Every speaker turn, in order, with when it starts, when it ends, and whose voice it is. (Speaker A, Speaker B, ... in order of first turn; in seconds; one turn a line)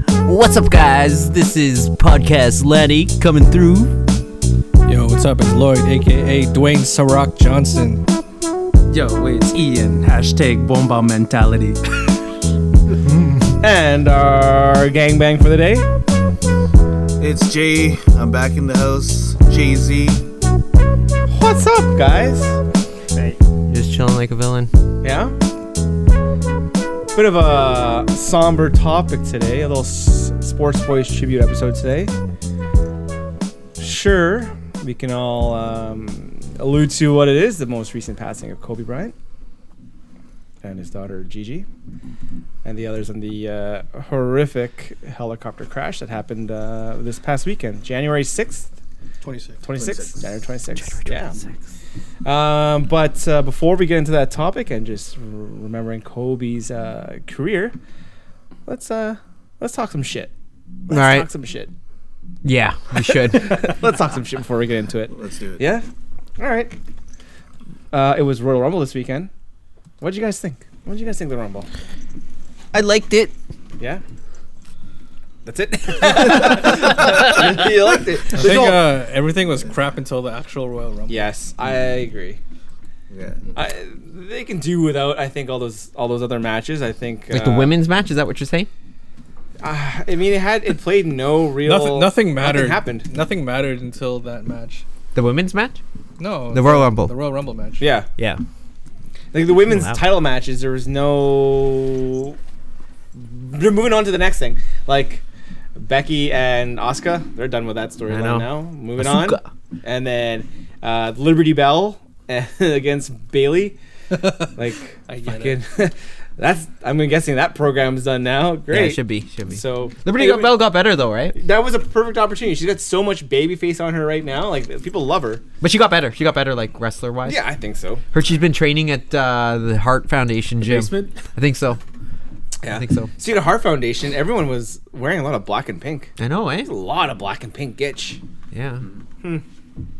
Speaker A: 0.2-4.0
Speaker B: 4.8-8.0
Speaker C: 8.9-11.8
Speaker D: 13.6-15.9
Speaker E: 17.2-20.3
Speaker D: 21.3-22.6
Speaker A: 23.6-24.7
Speaker D: 25.0-25.3
Speaker D: 27.1-32.1
Speaker D: 33.8-39.1
Speaker D: 40.6-41.7
Speaker D: 42.6-48.7
Speaker B: 49.2-49.6
Speaker D: 49.6-51.4
Speaker E: 49.7-50.3
Speaker A: 50.8-51.5
Speaker D: 52.2-57.7
Speaker D: 58.6-60.3
Speaker D: 60.9-61.7
Speaker A: 60.9-61.3
Speaker A: 62.4-63.8
Speaker D: 62.9-65.8
Speaker E: 65.1-65.7
Speaker D: 66.4-66.7
Speaker D: 67.9-69.3
Speaker D: 70.0-71.7
Speaker A: 72.7-73.3
Speaker D: 75.4-78.9
Speaker B: 78.3-81.3
Speaker D: 81.1-82.4
Speaker E: 83.1-83.5
Speaker D: 83.5-87.7
Speaker A: 87.3-88.7
Speaker D: 89.6-93.1
Speaker B: 91.6-94.8
Speaker A: 95.1-95.8
Speaker B: 96.2-97.8
Speaker A: 96.5-97.1
Speaker D: 97.8-98.1
Speaker A: 98.2-98.4
Speaker D: 99.3-102.3
Speaker A: 99.6-100.0
Speaker D: 103.1-105.2
Speaker D: 105.7-113.8
Speaker A: 108.1-109.5
Speaker B: 114.2-114.5
Speaker D: 114.5-120.6
Speaker B: 115.1-115.6
Speaker A: 118.7-121.3
Speaker D: 121.3-125.4
Speaker A: 125.6-127.4
Speaker D: 127.2-128.0
Speaker A: 128.1-131.8
Speaker C: 130.6-131.2
Speaker D: 132.6-136.1
Speaker A: 132.7-133.1
Speaker A: 136.2-136.7
Speaker D: 136.6-138.2
Speaker A: 138.5-138.8